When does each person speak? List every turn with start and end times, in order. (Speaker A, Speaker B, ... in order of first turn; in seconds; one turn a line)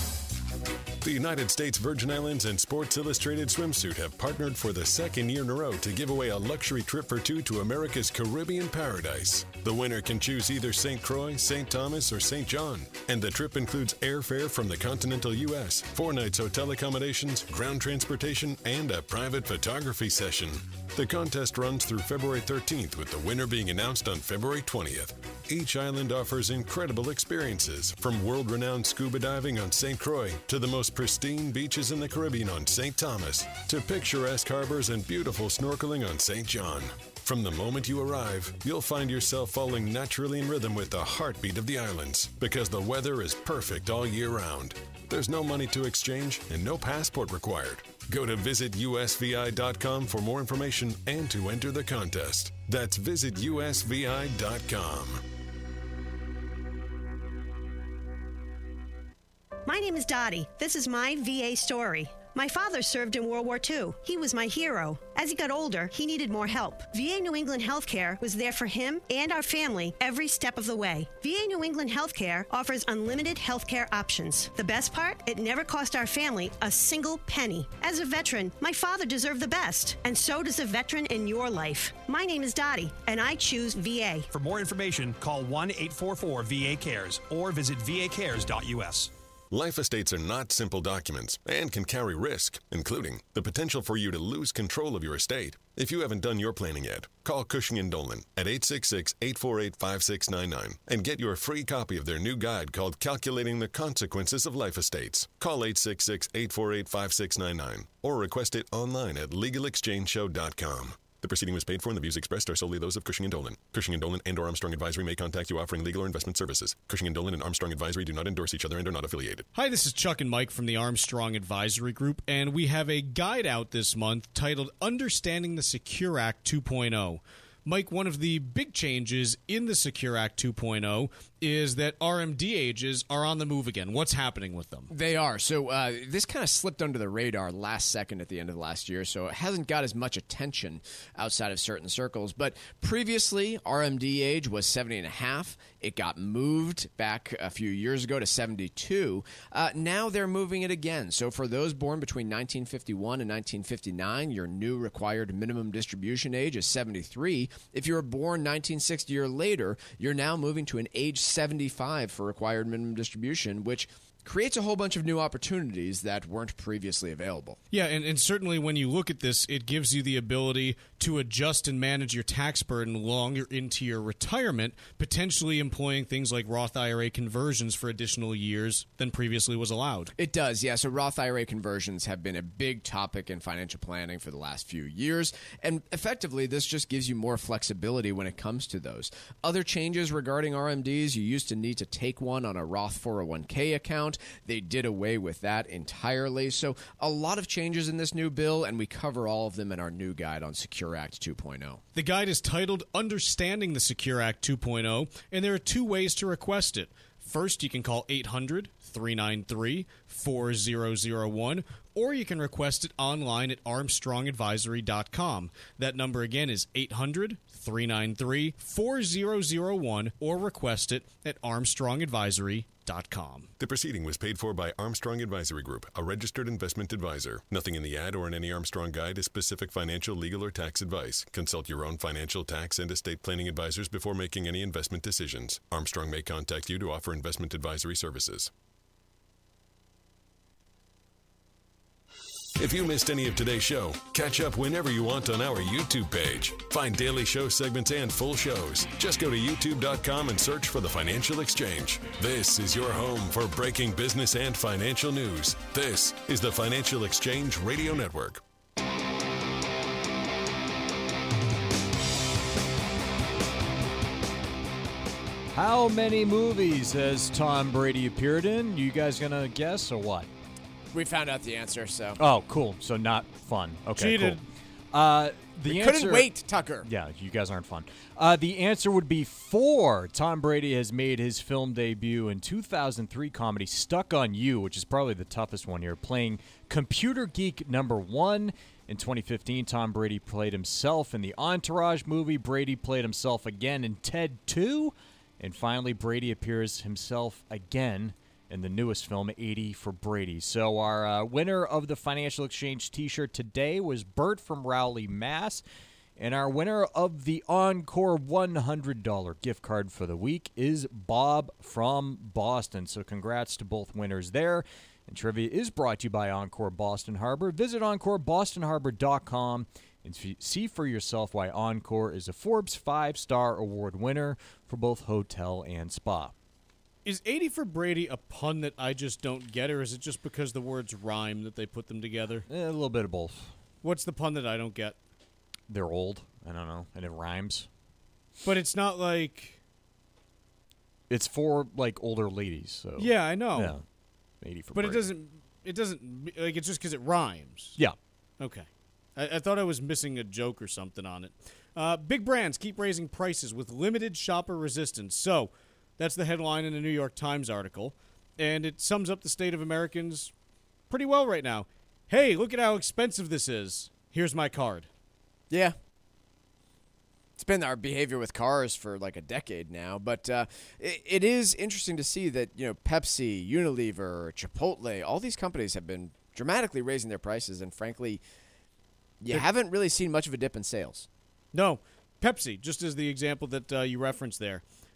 Speaker A: 1.0-55.2
Speaker B: 59.7-84.3
Speaker C: 84.3-89.1
Speaker A: 89.5-119.5
Speaker D: 119.5-134.9
Speaker E: 134.9-167.6
Speaker D: 167.7-180.1
Speaker E: 180.2-201.8
Speaker D: 201.9-223.5
Speaker A: 223.6-238.5
Speaker A: 242.6-258.4
Speaker F: 265.5-270.3
Speaker E: 270.9-272.2
Speaker F: 272.2-276.3
Speaker D: 274.0-274.4
Speaker E: 275.7-276.9
Speaker F: 276.8-305.6
Speaker F: 306.2-326.4
Speaker D: 327.1-332.5
Speaker F: 332.5-333.6
Speaker D: 333.8-335.0
Speaker F: 335.7-337.7
Speaker D: 338.4-339.6
Speaker F: 341.1-343.8
Speaker D: 343.0-343.8
Speaker F: 344.4-345.1
Speaker D: 344.7-347.8
Speaker D: 348.4-360.3
Speaker D: 360.9-364.9
Speaker E: 365.5-365.8
Speaker E: 367.4-378.2
Speaker E: 379.2-381.1
Speaker D: 381.5-384.6